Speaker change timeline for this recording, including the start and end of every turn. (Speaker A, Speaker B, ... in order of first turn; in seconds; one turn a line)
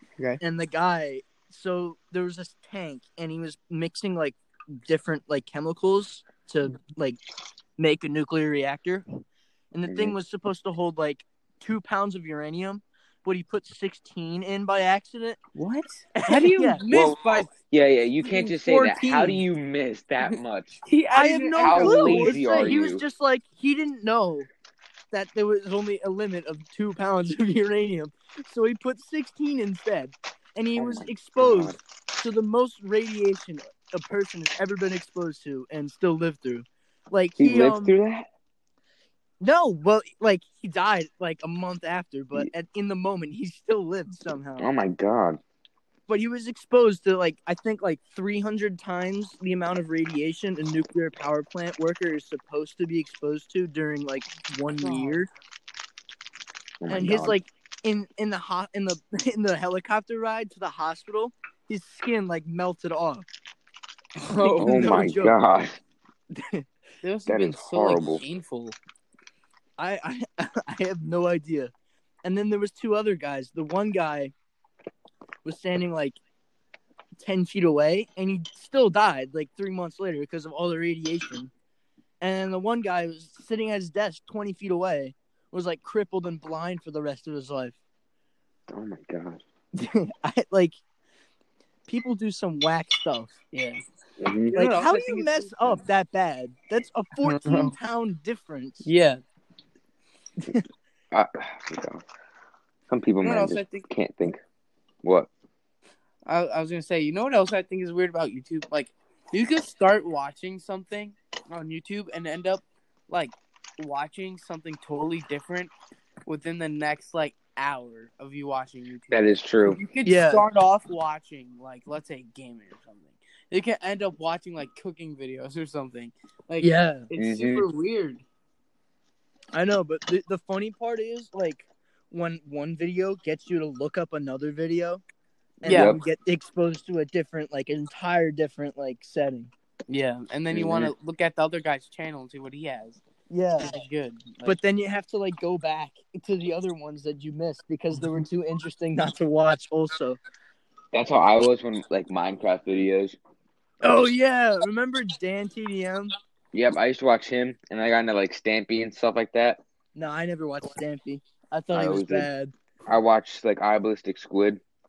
Speaker A: 0.4-7.2
Speaker A: 7.8-9.0
Speaker A: 9.7-15.4
Speaker B: 9.9-10.1
Speaker C: 15.6-17.5
Speaker A: 16.2-16.8
Speaker B: 16.9-20.8
Speaker C: 18.2-19.4
Speaker C: 20.2-22.4
Speaker A: 21.1-24.5
Speaker B: 21.6-23.0
Speaker A: 25.1-37.9
Speaker B: 30.8-31.8
Speaker B: 37.4-38.3
Speaker A: 39.4-44.7
Speaker B: 44.6-45.4
Speaker A: 46.1-55.3
Speaker C: 54.8-55.2
Speaker B: 56.8-57.4
Speaker A: 56.9-63.2
Speaker C: 64.2-65.1
Speaker A: 64.4-65.4
Speaker B: 64.6-65.8
Speaker A: 66.3-66.6
Speaker C: 67.0-68.8
Speaker B: 67.3-68.2
Speaker A: 69.8-71.7
Speaker A: 72.2-74.3
Speaker A: 75.5-76.2
Speaker A: 77.2-81.5
Speaker A: 82.2-87.8
Speaker B: 88.7-89.4
Speaker A: 89.8-90.8
Speaker A: 91.9-93.3
Speaker C: 93.5-93.8
Speaker B: 94.2-94.5
Speaker C: 94.5-95.8
Speaker A: 94.5-98.9
Speaker C: 97.2-97.8
Speaker C: 98.8-99.2
Speaker A: 100.4-100.6
Speaker B: 101.1-102.0
Speaker B: 102.9-104.4
Speaker C: 103.2-103.9
Speaker B: 105.0-105.3
Speaker C: 106.2-115.7
Speaker C: 116.3-128.2
Speaker B: 119.1-119.8
Speaker A: 120.0-120.4
Speaker A: 126.6-127.1
Speaker B: 127.2-127.7
Speaker A: 129.5-135.0
Speaker A: 135.6-139.5
Speaker C: 135.6-135.9
Speaker B: 135.7-136.0
Speaker C: 139.9-143.0
Speaker B: 140.5-140.9
Speaker A: 143.3-143.7
Speaker C: 143.6-144.6
Speaker A: 144.4-150.2
Speaker B: 150.9-153.2
Speaker A: 153.8-156.1
Speaker B: 156.5-159.6
Speaker A: 159.9-162.5
Speaker B: 161.7-162.3
Speaker B: 162.9-164.6